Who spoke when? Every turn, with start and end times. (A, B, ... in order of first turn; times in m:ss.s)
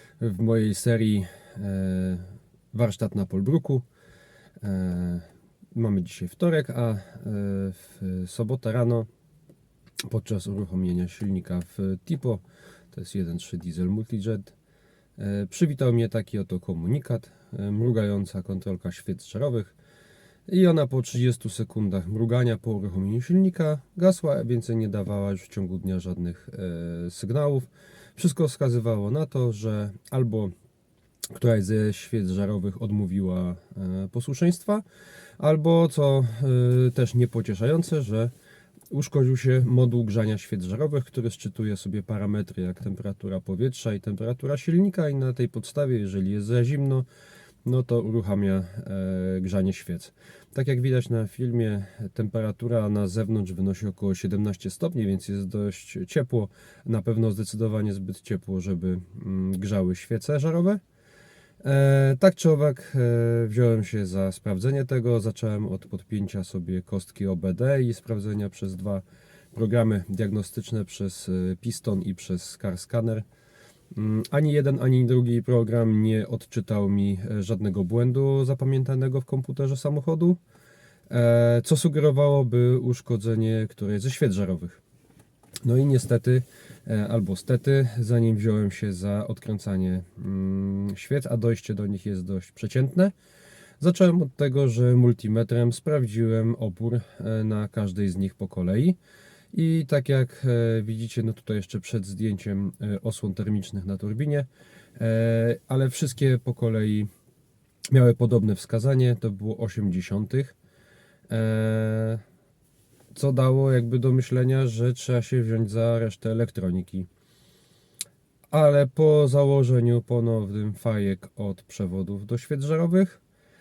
0:00.2-0:03.8 A
0:04.6-0:09.1 A
0:10.1-0:14.5 A
0:15.2-0:19.8 A
0:20.5-0:30.5 A
0:31.3-0:34.8 A
0:35.4-0:38.3 A
0:38.9-0:47.1 A
0:47.6-1:00.8 A
1:01.6-1:13.2 A
1:13.9-1:20.4 A
1:21.1-1:24.8 A
1:25.6-1:33.1 A
1:33.8-1:39.0 A
1:39.5-1:47.1 A
1:47.9-1:50.6 A
1:51.3-1:52.2 A
1:53.1-1:57.1 A
1:58.5-2:03.2 A